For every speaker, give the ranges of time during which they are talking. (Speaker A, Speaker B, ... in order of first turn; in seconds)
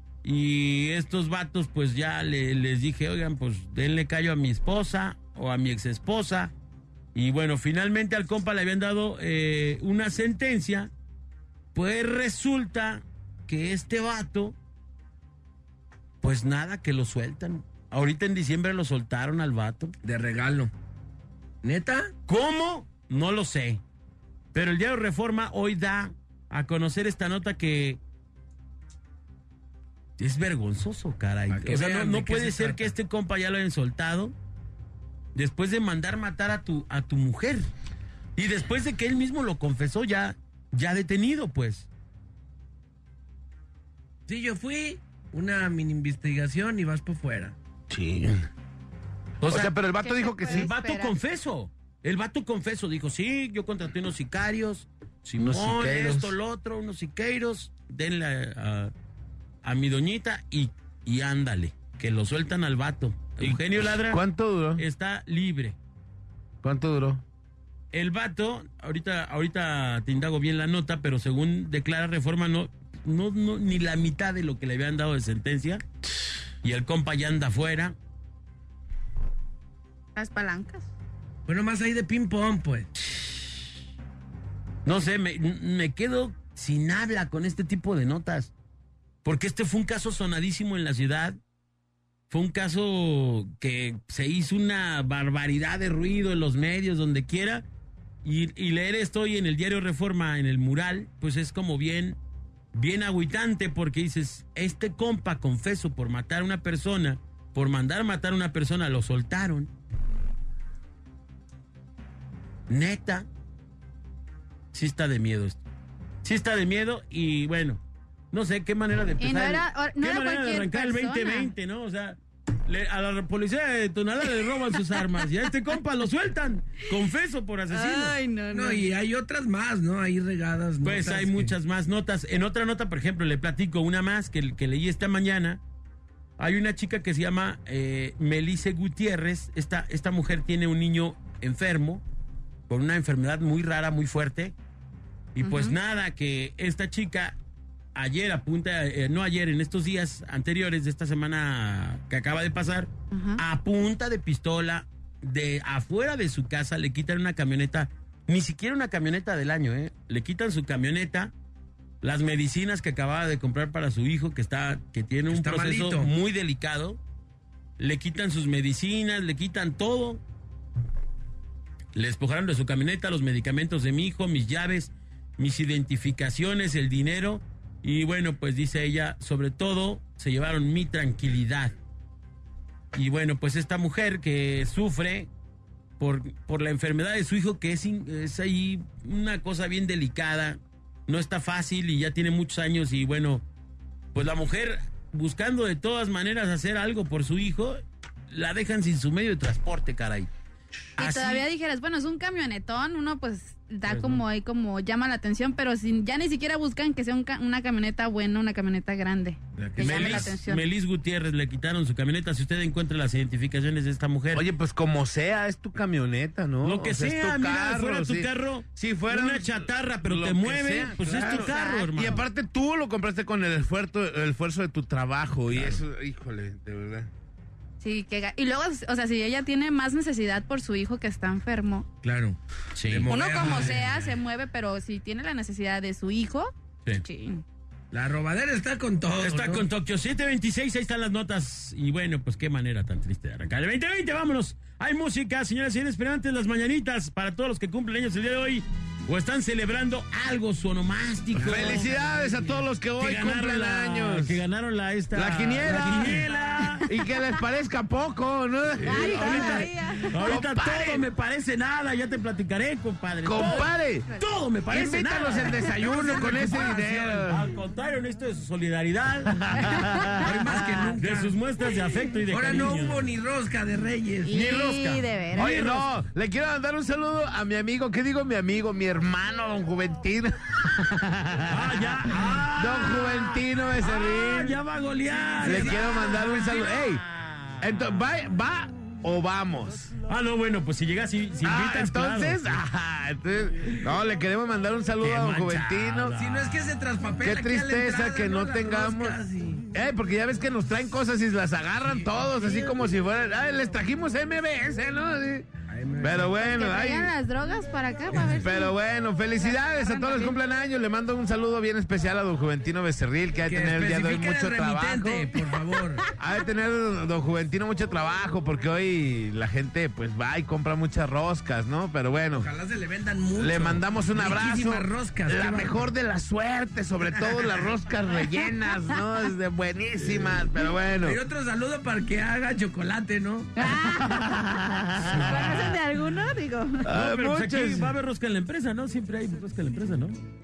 Speaker A: 0.2-6.5, 7.1-10.9, 11.8-14.6, 16.2-19.9, 22.3-23.8, 24.5-28.0, 30.2-34.3, 35.4-37.7, 38.4-41.9, 49.4-49.7, 50.5-58.9, 59.6-64.2, 64.8-65.8, 67.9-75.8, 76.6-78.0, 84.8-88.5, 89.2-91.4, 92.3-97.6, 98.2-102.2, 102.7-109.7, 112.7-113.3, 114.7-115.6, 116.2-117.8, 118.3-128.2, 130.8-135.6, 136.4-142.0, 142.7-144.5, 145.4-147.3, 147.9-161.3, 162.0-167.0, 167.8-170.2, 171.9-181.7, 182.9-185.3, 186.0-193.4, 194.1-200.3, 201.0-201.4, 203.9-204.2, 209.8-214.5, 216.6-222.2, 232.8-233.7, 239.2-251.9, 253.0-256.9, 258.8-273.1, 274.3-275.9, 281.5-287.9, 290.1-292.6, 295.0-296.6, 335.1-335.7, 336.9-340.2
Speaker B: 20.0-20.7, 21.6-22.1, 31.5-32.9, 44.3-47.5, 81.5-82.9, 128.5-131.5, 165.3-166.1, 209.6-210.3, 232.0-232.4, 232.9-234.0, 237.9-239.7, 251.3-252.6, 270.2-271.3, 272.3-274.4, 296.1-299.6, 301.9-302.8, 305.7-306.4, 308.1-308.5, 313.5-316.1, 322.3-325.8, 331.0-333.5
Speaker C: 47.9-48.4, 49.4-50.7, 55.4-56.3, 63.4-64.8, 66.6-67.2, 214.3-227.1, 251.4-254.4, 255.1-256.3, 256.9-261.1, 263.2-264.1, 264.7-267.5, 269.5-270.3, 275.3-284.6, 285.4-287.0, 287.6-289.9, 291.4-296.1, 297.2-299.2, 299.7-305.5, 306.0-307.1, 308.4-315.3, 316.2-322.5, 323.4-331.2, 333.9-335.6, 336.9-337.9
Speaker D: 49.9-51.1, 80.2-80.9, 119.2-121.5, 127.7-128.9, 145.4-145.8, 153.1-153.4, 201.0-210.6, 221.1-222.2, 227.8-231.9, 233.1-237.4, 258.9-260.1, 263.4-264.2, 274.3-275.7, 306.4-308.7, 309.4-310.4, 333.6-334.4, 335.2-336.9